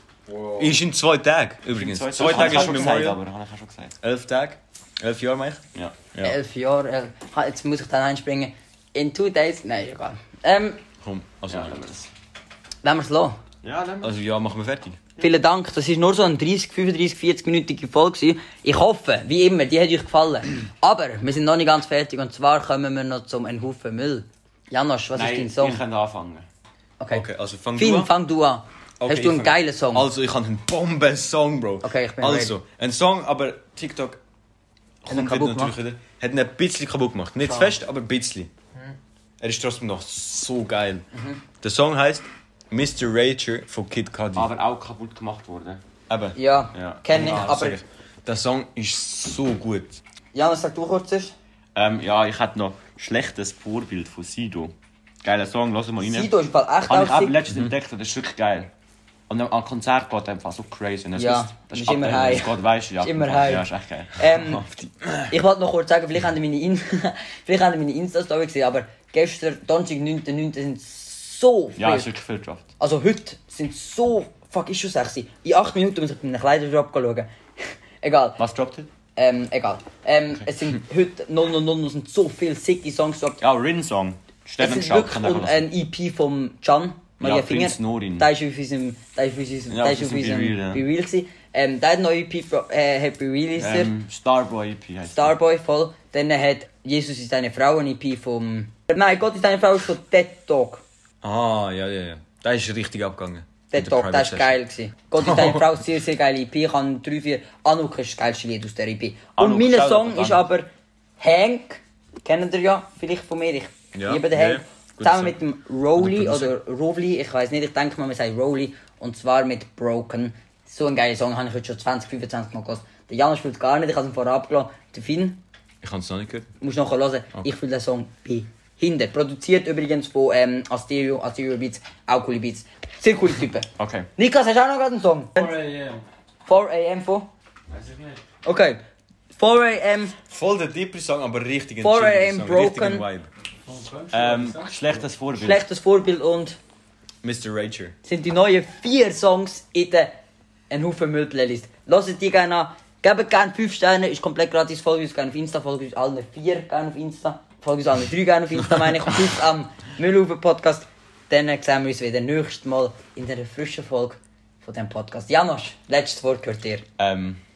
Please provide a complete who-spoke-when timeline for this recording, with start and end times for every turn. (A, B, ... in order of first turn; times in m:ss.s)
0:00.6-0:03.2 A
0:01.7-0:04.0 B
0:04.0-0:05.6 A
0:05.7-0:06.4 B
0:06.2-0:10.8 C
0:11.0-0:11.8 A
0:11.5-0:12.1 B
0:12.8-0:13.4 C
0:13.6-0:14.2 B
0:14.0-0:15.0 A
0:15.2-0:25.8 C
0:25.1-0:26.4 B
0:27.0-0:30.1 C
0:27.1-0:28.1 A
0:29.0-0:34.2 A
0:31.8-0:32.5 C
0:35.0-0:38.5 A
0:35.1-0:35.7 C
0:37.5-0:37.7 C
0:39.4-0:41.0 A
0:41.1-0:41.4 C
0:41.6-0:44.5 A
0:44.3-0:45.8 B
0:46.1-0:46.4 A
0:46.4-0:47.8 C
0:46.7-0:47.5 B
0:47.1-0:50.0 A
0:50.3-0:51.3 C
0:51.7-0:56.3 B
0:56.0-0:57.4 C
0:56.9-0:58.7 B
0:59.3-1:04.6 B
1:01.2-1:04.7 C
1:05.3-1:12.1 C
1:11.8-1:12.7 B
1:12.8-1:18.4 C
1:18.4-1:18.9 B
1:19.2-1:23.4 C
1:23.4-1:25.7 B
1:24.6-1:33.9 C
1:27.2-1:28.3 B
1:29.7-1:30.8 B
1:33.6-1:35.4 B
1:35.1-1:40.8 C
1:41.2-1:44.6 A
1:43.7-1:50.7 C
1:45.2-1:45.7 A
1:49.4-1:50.4 B
1:51.2-2:05.4 C
1:53.9-1:55.4 A
1:55.9-1:56.5 A
2:05.8-2:06.5 A
2:06.6-2:15.6 C
2:13.8-2:14.1 B
2:15.3-2:16.0 D
2:16.4-2:17.3 C
2:17.7-2:18.2 D
2:18.4-2:18.8 C
2:19.4-2:20.1 C
2:20.3-2:23.3 A
2:21.8-2:23.0 C
2:23.6-2:25.0 D
2:24.1-2:25.6 B
2:25.4-2:26.6 C
2:27.2-2:28.0 A
2:28.0-2:30.1 C
2:30.7-2:46.8 C
2:47.0-2:47.4 B